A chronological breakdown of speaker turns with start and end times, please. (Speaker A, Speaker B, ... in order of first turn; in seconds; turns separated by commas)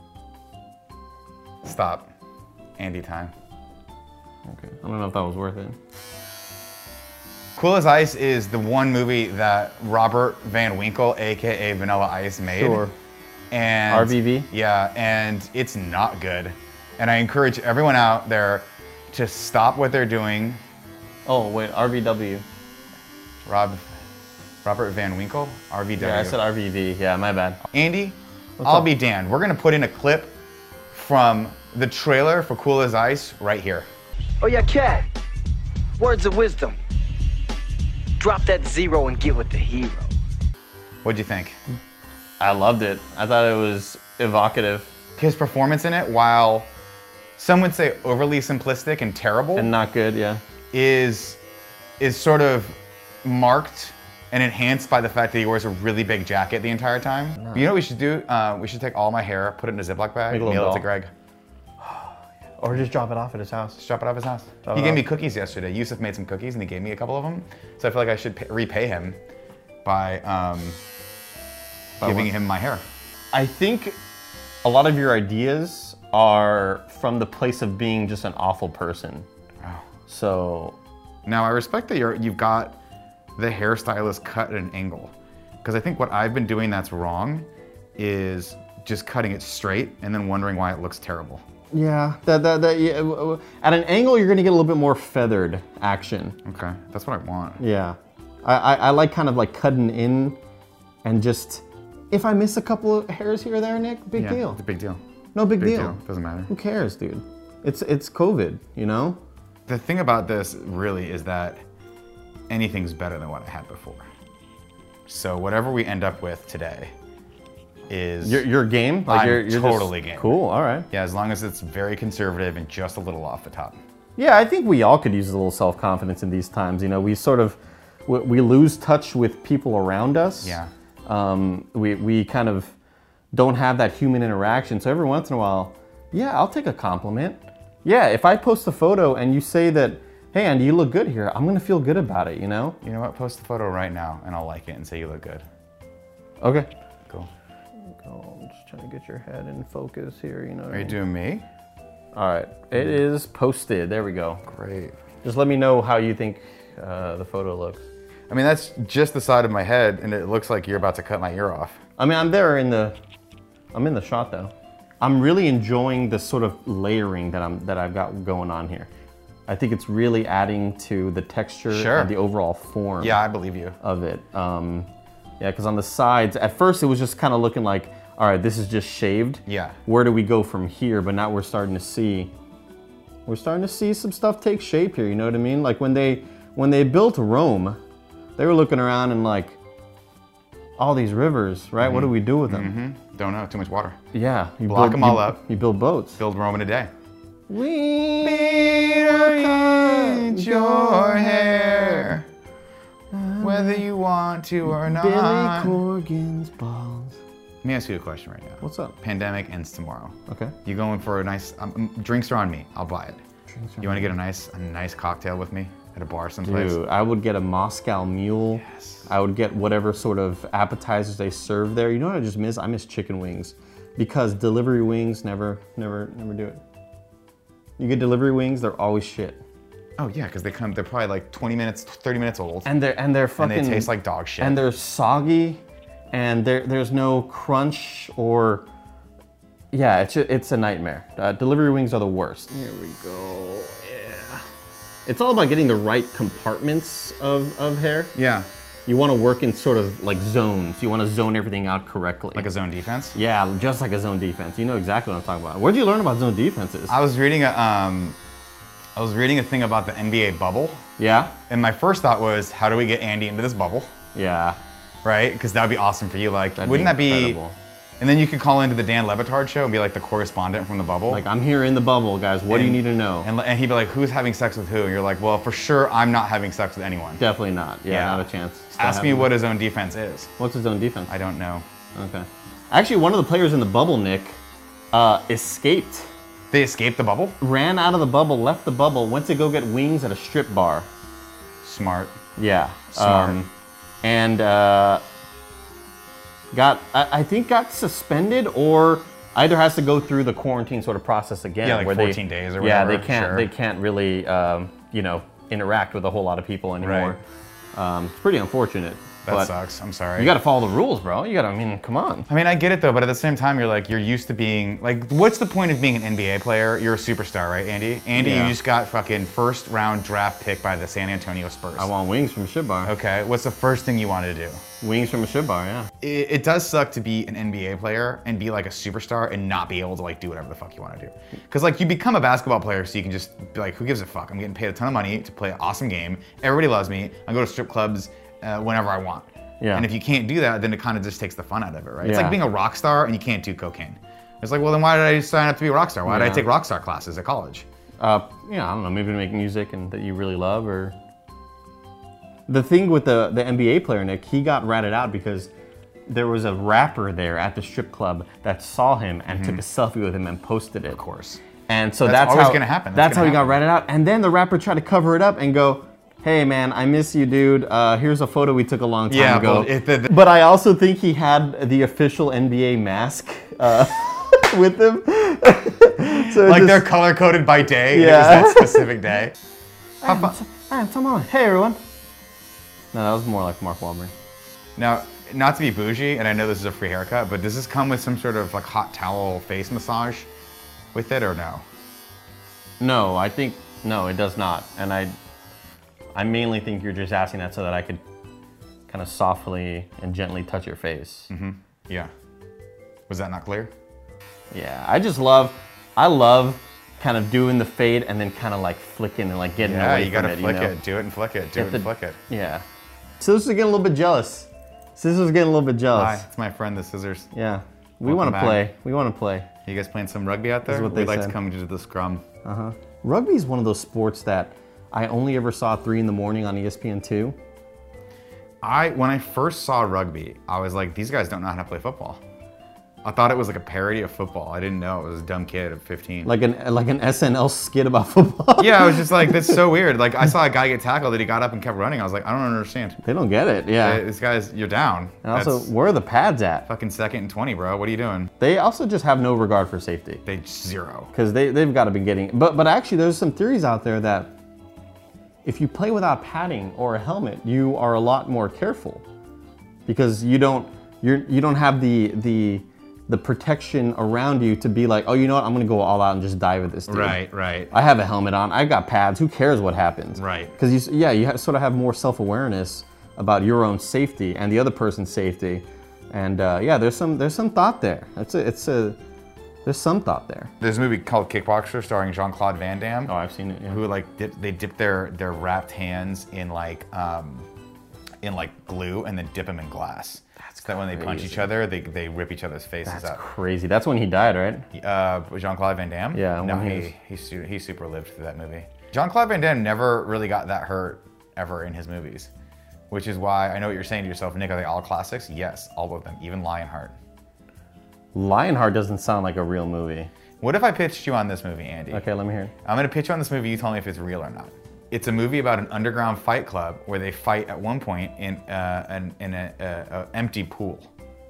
Speaker A: 1.6-2.1, Speaker A: 2.8-3.3, Speaker B: 4.5-5.8, Speaker A: 7.6-12.9, Speaker B: 12.5-12.9, Speaker A: 13.5-20.6, Speaker B: 13.9-14.5, Speaker B: 21.2-22.4, Speaker A: 23.4-23.9, Speaker A: 24.6-26.4, Speaker B: 26.0-27.6, Speaker A: 27.7-30.4, Speaker B: 28.6-28.9, Speaker A: 30.9-33.9, Speaker C: 34.4-35.1, Speaker C: 36.0-36.8, Speaker C: 38.2-40.1, Speaker A: 41.0-41.6, Speaker B: 42.4-44.9, Speaker A: 45.2-46.7, Speaker A: 47.4-49.7, Speaker B: 49.6-50.4, Speaker A: 50.7-51.4, Speaker A: 52.0-61.1, Speaker B: 57.4-57.6, Speaker B: 60.3-60.9, Speaker B: 61.8-63.8, Speaker A: 63.8-69.2, Speaker B: 64.6-65.0, Speaker A: 69.8-70.8, Speaker A: 72.0-72.9, Speaker B: 72.0-72.3, Speaker B: 73.3-74.0, Speaker B: 74.6-79.2, Speaker B: 80.1-80.8, Speaker A: 81.2-82.8, Speaker A: 83.4-85.1, Speaker A: 85.6-91.4, Speaker B: 91.7-96.4, Speaker A: 96.4-97.6, Speaker B: 97.6-100.4, Speaker B: 101.0-104.6, Speaker A: 104.2-105.0, Speaker B: 105.3-109.2, Speaker A: 105.6-106.5, Speaker A: 109.7-111.6, Speaker A: 112.5-114.0, Speaker A: 115.1-116.9, Speaker A: 117.9-118.4, Speaker B: 118.2-120.9, Speaker A: 119.1-120.4, Speaker A: 120.9-123.8, Speaker B: 124.2-132.7, Speaker A: 130.4-130.7, Speaker B: 133.3-142.8, Speaker A: 142.8-145.4, Speaker B: 146.4-146.7, Speaker B: 147.9-151.0, Speaker A: 150.7-151.4, Speaker B: 152.1-154.4, Speaker A: 154.4-154.9, Speaker B: 155.2-157.9, Speaker A: 158.3-161.8, Speaker B: 162.0-162.9, Speaker B: 163.7-168.9, Speaker B: 169.5-173.2, Speaker A: 171.7-172.1, Speaker A: 173.0-173.8, Speaker B: 173.8-174.9, Speaker B: 175.4-182.3, Speaker A: 179.4-179.8, Speaker B: 183.2-187.8, Speaker B: 188.4-189.6, Speaker B: 190.8-192.7, Speaker A: 191.8-194.0, Speaker B: 194.1-196.2, Speaker A: 194.7-195.4, Speaker A: 196.2-196.9, Speaker B: 197.5-202.1, Speaker A: 198.2-202.2, Speaker B: 203.1-203.9, Speaker A: 203.4-205.8, Speaker B: 204.7-207.2, Speaker A: 207.6-213.2, Speaker B: 208.6-208.9, Speaker B: 210.3-210.6, Speaker B: 213.5-214.1, Speaker A: 213.8-216.8, Speaker B: 216.4-226.6, Speaker A: 218.8-219.0, Speaker B: 227.8-229.4, Speaker A: 230.0-232.7, Speaker B: 232.6-235.6, Speaker A: 233.4-234.6, Speaker B: 236.1-238.7, Speaker B: 239.7-244.4, Speaker B: 245.1-248.1, Speaker A: 248.1-248.5, Speaker B: 248.9-252.5, Speaker A: 252.3-253.2, Speaker B: 253.1-256.9, Speaker A: 256.9-258.2, Speaker A: 258.9-260.8, Speaker B: 261.0-261.4, Speaker A: 261.5-263.9, Speaker B: 264.1-264.6, Speaker A: 265.0-267.4, Speaker B: 266.6-267.6, Speaker A: 268.0-271.2, Speaker B: 271.1-273.3, Speaker A: 272.5-277.2, Speaker B: 277.2-279.3, Speaker A: 277.9-280.3, Speaker B: 280.4-281.1, Speaker A: 281.1-281.6, Speaker B: 281.9-284.4, Speaker B: 284.9-286.1, Speaker A: 286.5-287.4, Speaker B: 287.4-290.9, Speaker A: 291.6-292.1, Speaker B: 292.4-293.5, Speaker A: 292.9-293.4, Speaker B: 294.0-295.0, Speaker B: 296.5-307.2, Speaker A: 301.6-303.5, Speaker A: 306.8-307.2, Speaker B: 307.7-309.5, Speaker A: 309.2-310.3, Speaker B: 310.2-312.3, Speaker A: 312.3-321.9, Speaker B: 318.1-318.5, Speaker B: 321.8-322.9, Speaker A: 322.9-324.6, Speaker B: 324.8-325.9, Speaker A: 326.0-347.6, Speaker B: 339.6-339.9, Speaker B: 342.0-342.4, Speaker B: 346.1-346.5, Speaker B: 348.0-350.9, Speaker B: 352.5-355.5, Speaker B: 356.1-361.0, Speaker A: 359.3-359.6, Speaker A: 360.9-361.4, Speaker B: 361.7-376.9, Speaker A: 362.0-363.6, Speaker A: 369.1-370.1, Speaker A: 376.0-379.4, Speaker B: 377.9-378.9, Speaker B: 380.0-381.8, Speaker A: 380.0-380.4, Speaker B: 382.9-384.1, Speaker A: 384.8-390.3, Speaker A: 390.9-391.6, Speaker B: 392.8-395.1, Speaker B: 396.1-398.0, Speaker B: 398.9-401.3, Speaker A: 401.3-402.1, Speaker A: 403.1-403.7, Speaker B: 404.5-410.8, Speaker A: 409.6-412.2, Speaker B: 411.6-412.6, Speaker B: 413.2-416.2, Speaker A: 415.9-417.3, Speaker B: 417.3-419.5, Speaker A: 418.0-418.6, Speaker A: 419.6-422.2, Speaker B: 420.6-421.4, Speaker B: 422.4-427.4, Speaker A: 428.6-432.2, Speaker A: 433.0-436.3, Speaker B: 436.2-439.6, Speaker A: 438.6-443.0, Speaker B: 443.0-444.0, Speaker A: 443.8-445.7, Speaker B: 445.2-446.7, Speaker A: 446.7-448.3, Speaker B: 448.4-450.2, Speaker A: 450.2-451.1, Speaker B: 451.1-454.3, Speaker B: 455.4-459.0, Speaker B: 459.9-479.0, Speaker A: 466.9-467.7, Speaker A: 470.2-470.5, Speaker B: 479.6-480.5, Speaker A: 480.6-483.1, Speaker B: 483.1-483.8, Speaker A: 483.7-487.5, Speaker A: 488.2-493.2, Speaker B: 490.4-491.5, Speaker B: 492.9-494.6, Speaker A: 494.7-502.3, Speaker B: 496.1-496.9, Speaker A: 502.9-506.9, Speaker B: 508.1-510.1, Speaker A: 510.4-512.1, Speaker B: 511.9-512.5, Speaker A: 512.6-520.9